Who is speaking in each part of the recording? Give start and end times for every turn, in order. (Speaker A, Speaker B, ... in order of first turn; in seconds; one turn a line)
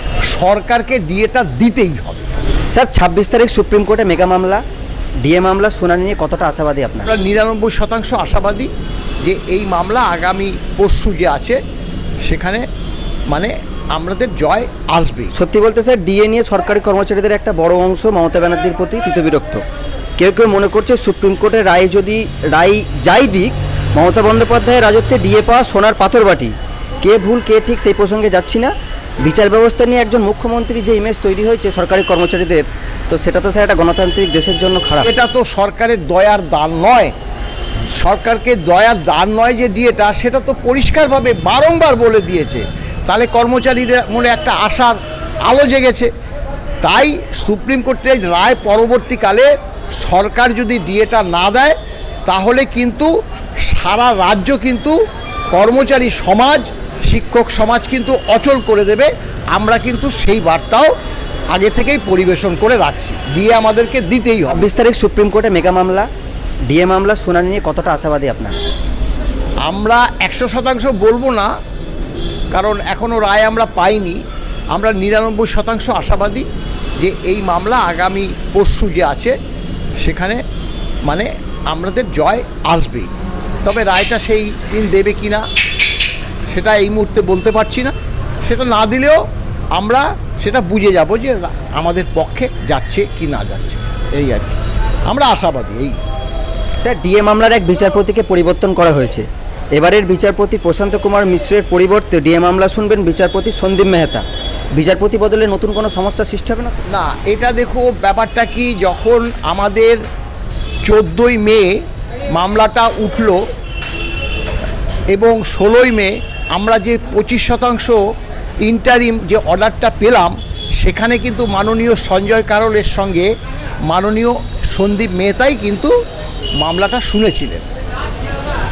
Speaker A: 0.3-2.3
Speaker B: 2.7-4.6
Speaker B: 5.2-7.1
Speaker A: 7.1-8.7
Speaker A: 9.2-11.6
Speaker A: 12.2-12.7
Speaker A: 13.3-15.3
Speaker B: 15.3-19.6
Speaker B: 20.2-35.1
Speaker A: 35.0-37.1
Speaker A: 38.0-46.1
Speaker A: 46.8-53.1
Speaker A: 53.6-55.0
Speaker A: 55.5-60.9
Speaker A: 61.5-64.7
Speaker B: 64.5-66.1
Speaker B: 66.7-68.6
Speaker A: 69.7-71.5
Speaker A: 72.5-74.2
Speaker A: 74.7-76.5
Speaker A: 77.0-79.3
Speaker A: 80.0-80.4
Speaker A: 81.0-83.1
Speaker A: 83.6-85.5
Speaker A: 86.5-87.9
Speaker A: 88.5-89.2
Speaker A: 89.8-96.0
Speaker B: 96.8-106.8
Speaker A: 106.9-110.0
Speaker A: 110.8-111.8
Speaker A: 112.3-113.4
Speaker A: 115.1-118.0
Speaker A: 118.6-123.3
Speaker A: 123.9-125.9
Speaker A: 126.6-127.7